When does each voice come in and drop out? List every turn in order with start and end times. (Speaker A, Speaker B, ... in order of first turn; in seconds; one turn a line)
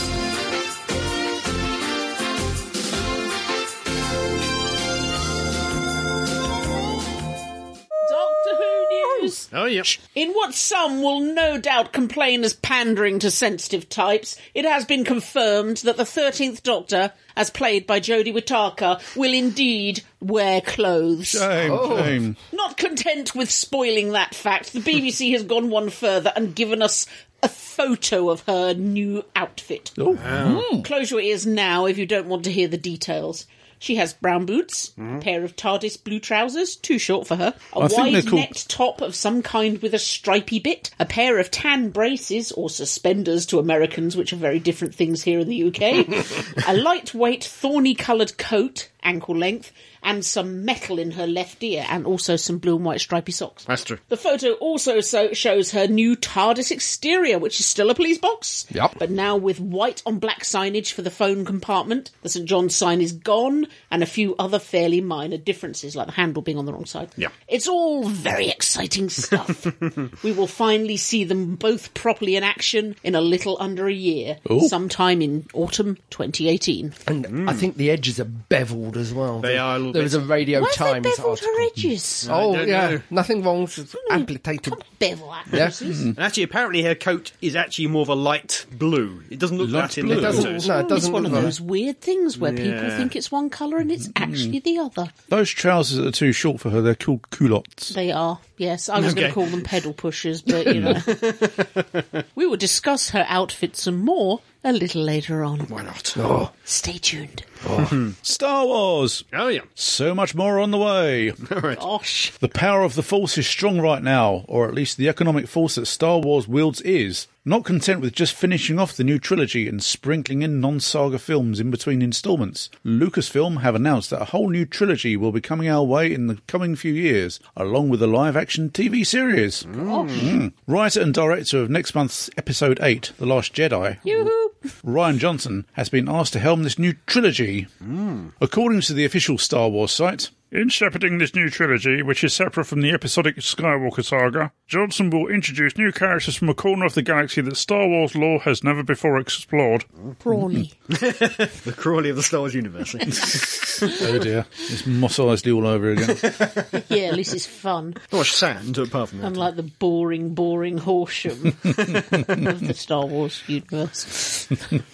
Speaker A: 8.0-29.9
Speaker B: 9.5-9.9
Speaker C: 21.3-22.4
Speaker D: 21.6-22.2
Speaker C: 30.0-30.9
Speaker B: 30.1-30.7
Speaker A: 30.5-77.0
Speaker C: 37.8-38.5
Speaker B: 53.7-54.0
Speaker D: 58.7-59.0
Speaker C: 74.5-74.7
Speaker D: 77.0-84.8
Speaker B: 77.3-77.6
Speaker B: 79.4-80.3
Speaker A: 80.5-82.3
Speaker B: 82.2-83.0
Speaker A: 84.0-86.1
Speaker D: 85.5-85.8
Speaker C: 85.8-86.2
Speaker B: 86.1-91.0
Speaker C: 89.6-90.5
Speaker D: 90.1-91.6
Speaker A: 90.7-95.1
Speaker B: 92.3-93.1
Speaker C: 94.2-94.5
Speaker C: 95.3-97.9
Speaker A: 97.9-101.1
Speaker B: 99.0-99.6
Speaker B: 100.5-102.0
Speaker C: 100.7-101.0
Speaker A: 102.3-105.8
Speaker B: 105.7-106.2
Speaker D: 106.2-106.5
Speaker A: 106.5-107.5
Speaker D: 107.6-107.9
Speaker B: 107.8-108.1
Speaker C: 108.2-111.4
Speaker B: 109.3-109.7
Speaker B: 111.4-111.8
Speaker A: 111.8-112.3
Speaker C: 112.4-134.3
Speaker B: 129.7-130.2
Speaker A: 129.8-130.3
Speaker A: 134.0-134.5
Speaker C: 134.8-137.7
Speaker B: 137.9-138.2
Speaker C: 138.4-140.3
Speaker E: 140.5-149.9
Speaker A: 150.2-150.7
Speaker C: 150.3-150.6
Speaker B: 150.9-154.0
Speaker C: 153.9-156.3
Speaker B: 156.2-156.7
Speaker A: 156.7-158.0
Speaker B: 158.1-159.5
Speaker A: 159.2-164.8